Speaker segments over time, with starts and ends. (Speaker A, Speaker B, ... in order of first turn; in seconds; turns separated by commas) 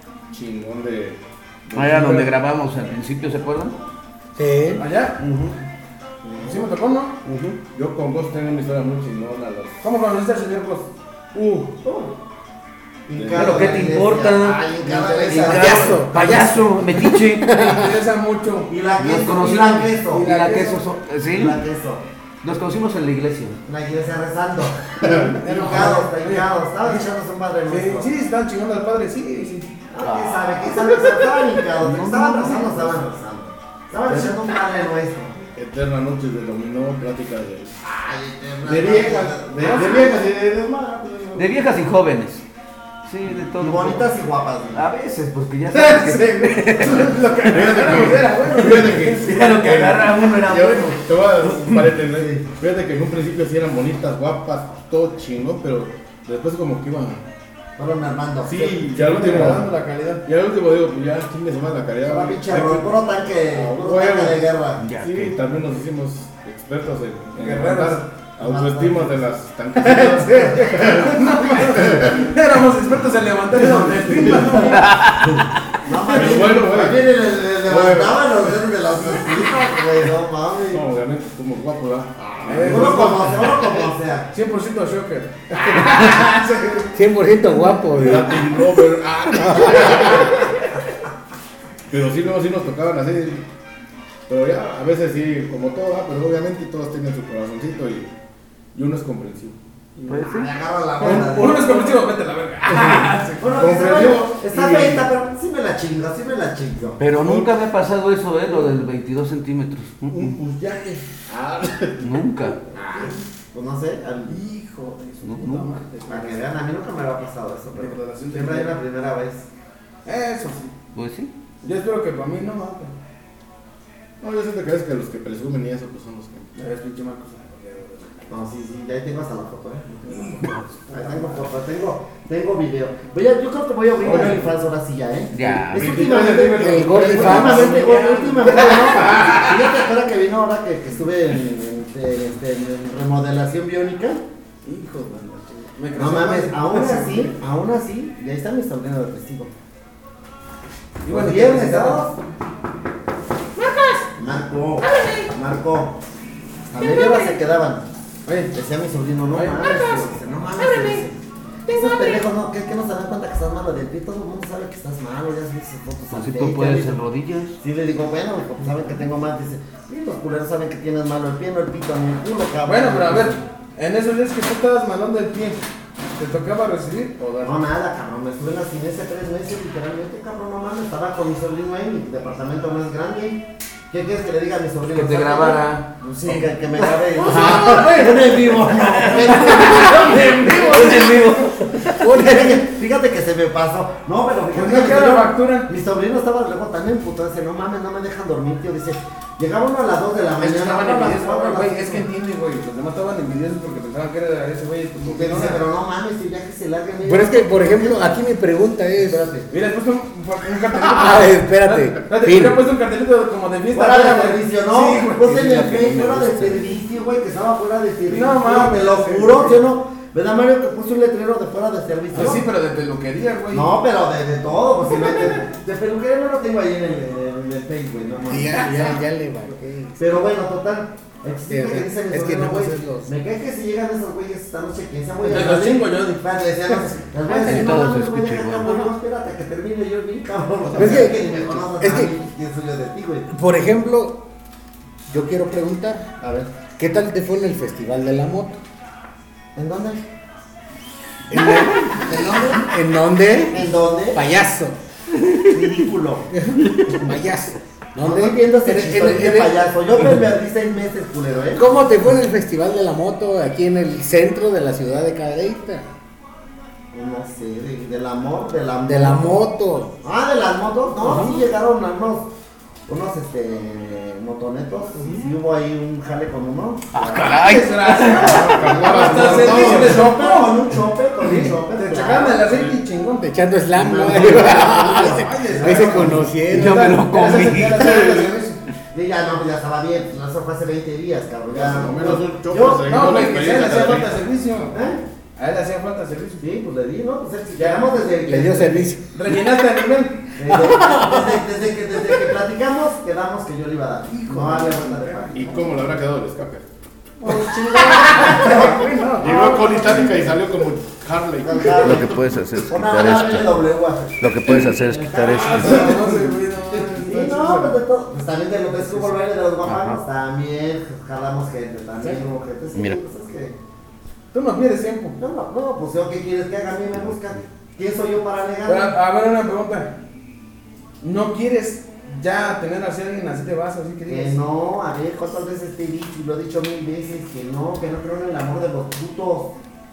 Speaker A: 0.3-2.3, Speaker B: 1.7-3.8, Speaker C: 4.4-4.8, Speaker D: 4.8-5.5, Speaker B: 5.2-5.5, Speaker E: 6.2-6.7, Speaker D: 6.4-7.2, Speaker B: 7.2-7.6, Speaker A: 7.7-9.8, Speaker D: 9.8-10.9, Speaker A: 11.3-11.7, Speaker E: 11.8-12.2, Speaker E: 13.1-16.0, Speaker A: 13.2-13.8, Speaker B: 13.3-17.5, Speaker D: 14.8-15.6, Speaker C: 15.5-17.9, Speaker D: 17.5-18.7, Speaker E: 18.7-20.6, Speaker B: 19.0-21.6, Speaker D: 20.1-20.8, Speaker E: 21.2-22.0, Speaker B: 22.4-23.6, Speaker E: 23.7-28.1, Speaker D: 25.0-27.0, Speaker D: 27.7-29.7, Speaker E: 29.9-35.5, Speaker B: 30.0-31.1, Speaker B: 31.8-32.9, Speaker D: 34.1-34.4, Speaker A: 35.5-37.8, Speaker E: 37.8-40.2, Speaker A: 38.6-41.5, Speaker D: 38.8-40.1, Speaker B: 41.4-42.4, Speaker B: 43.0-44.1, Speaker E: 43.6-44.9, Speaker B: 44.7-47.2, Speaker D: 45.7-49.5, Speaker A: 47.5-57.2, Speaker B: 48.7-51.9, Speaker E: 52.0-52.4, Speaker E: 57.8-59.6, Speaker A: 58.4-59.7, Speaker D: 58.9-60.2, Speaker A: 60.2-64.5, Speaker E: 62.1-64.8, Speaker B: 64.8-65.3, Speaker A: 65.0-72.3, Speaker D: 67.4-68.1, Speaker E: 68.4-69.2, Speaker D: 69.8-75.0, Speaker E: 70.2-70.9, Speaker A: 74.0-74.6, Speaker E: 74.2-74.8, Speaker B: 74.8-75.4, Speaker E: 75.8-80.9, Speaker A: 76.1-79.4, Speaker A: 80.7-83.5, Speaker E: 82.3-84.3, Speaker D: 82.5-86.9, Speaker C: 86.9-88.4, Speaker A: 87.9-90.5, Speaker C: 89.4-90.1, Speaker A: 91.9-93.5, Speaker A: 94.3-98.1, Speaker A: 98.7-99.6, Speaker B: 100.1-100.5, Speaker E: 100.2-102.0, Speaker D: 101.0-103.7, Speaker A: 101.0-101.4, Speaker E: 102.8-107.0, Speaker A: 103.5-105.1, Speaker B: 107.0-110.4, Speaker A: 107.2-107.5, Speaker A: 110.1-112.2, Speaker B: 112.0-112.6, Speaker E: 112.8-114.4, Speaker D: 114.3-116.5, Speaker B: 115.2-115.7, Speaker E: 116.1-119.5, Speaker D: 117.8-118.8, Speaker D: 120.0-120.7, Speaker B: 121.0-121.3, Speaker D: 121.6-122.9, Speaker A: 124.2-126.5, Speaker D: 126.6-128.3, Speaker E: 128.3-144.2, Speaker D: 130.1-131.5, Speaker D: 134.0-134.5, Speaker A: 134.0-134.4, Speaker B: 135.3-136.0, Speaker D: 135.7-139.4, Speaker A: 135.7-137.8, Speaker C: 136.6-137.7, Speaker D: 144.6-147.3, Speaker E: 145.9-149.5, Speaker D: 151.0-152.0, Speaker E: 151.1-152.2, Speaker E: 154.2-156.0, Speaker E: 156.7-157.9, Speaker D: 158.3-158.5, Speaker E: 158.5-167.0, Speaker D: 159.3-159.9, Speaker B: 166.1-167.6, Speaker E: 167.6-173.4, Speaker D: 172.7-175.6, Speaker D: 176.2-177.6, Speaker E: 177.4-185.6, Speaker B: 184.9-185.9, Speaker D: 186.0-191.6, Speaker E: 186.2-190.6, Speaker B: 186.8-188.1, Speaker B: 188.8-192.3, Speaker C: 192.0-192.6, Speaker E: 192.1-202.1, Speaker D: 194.5-195.7, Speaker D: 200.4-205.6, Speaker E: 205.0-208.2, Speaker C: 207.1-209.3, Speaker E: 209.0-209.5, Speaker D: 209.5-216.7, Speaker C: 210.7-212.6, Speaker E: 213.7-222.5, Speaker D: 218.1-219.6, Speaker D: 222.1-223.8, Speaker E: 223.5-229.0, Speaker D: 225.0-225.3, Speaker C: 228.3-230.2, Speaker E: 230.0-243.3, Speaker C: 231.5-233.1, Speaker D: 235.2-236.2, Speaker B: 237.3-238.9, Speaker C: 237.5-237.7, Speaker A: 240.6-241.1, Speaker C: 240.8-242.1, Speaker C: 243.3-244.2, Speaker C: 245.1-246.1, Speaker E: 246.2-246.5, Speaker C: 246.8-248.6, Speaker E: 249.6-250.0, Speaker C: 251.3-254.8, Speaker E: 251.3-252.7, Speaker E: 253.5-254.2, Speaker E: 255.5-256.3, Speaker C: 256.3-259.6, Speaker E: 256.9-257.1, Speaker E: 258.0-261.7, Speaker C: 261.6-265.9, Speaker E: 266.9-269.4, Speaker C: 268.9-269.9, Speaker E: 270.0-272.3, Speaker C: 271.0-271.4, Speaker E: 272.9-282.7, Speaker B: 276.9-278.8, Speaker D: 277.2-283.3, Speaker A: 278.2-280.1, Speaker C: 283.2-287.0, Speaker E: 283.7-286.4, Speaker D: 284.1-287.7, Speaker B: 286.5-288.4, Speaker E: 287.1-293.4, Speaker A: 291.5-294.2, Speaker D: 292.9-294.8, Speaker E: 294.7-295.0, Speaker D: 295.4-296.5, Speaker E: 296.4-298.9, Speaker D: 297.6-297.9, Speaker C: 298.3-299.1, Speaker D: 299.1-300.3, Speaker E: 300.4-305.7, Speaker C: 300.5-301.4, Speaker D: 304.1-305.8, Speaker A: 305.3-306.7, Speaker D: 307.2-309.6, Speaker E: 307.2-310.4, Speaker C: 307.9-308.3, Speaker A: 309.2-312.0, Speaker E: 311.4-323.6, Speaker B: 311.8-313.6, Speaker B: 314.2-316.0, Speaker D: 315.3-317.8, Speaker D: 318.9-319.2, Speaker B: 319.6-320.0, Speaker B: 322.7-323.0, Speaker D: 324.3-325.2, Speaker E: 325.2-328.9, Speaker D: 328.6-329.9, Speaker D: 331.0-334.4, Speaker E: 334.1-339.5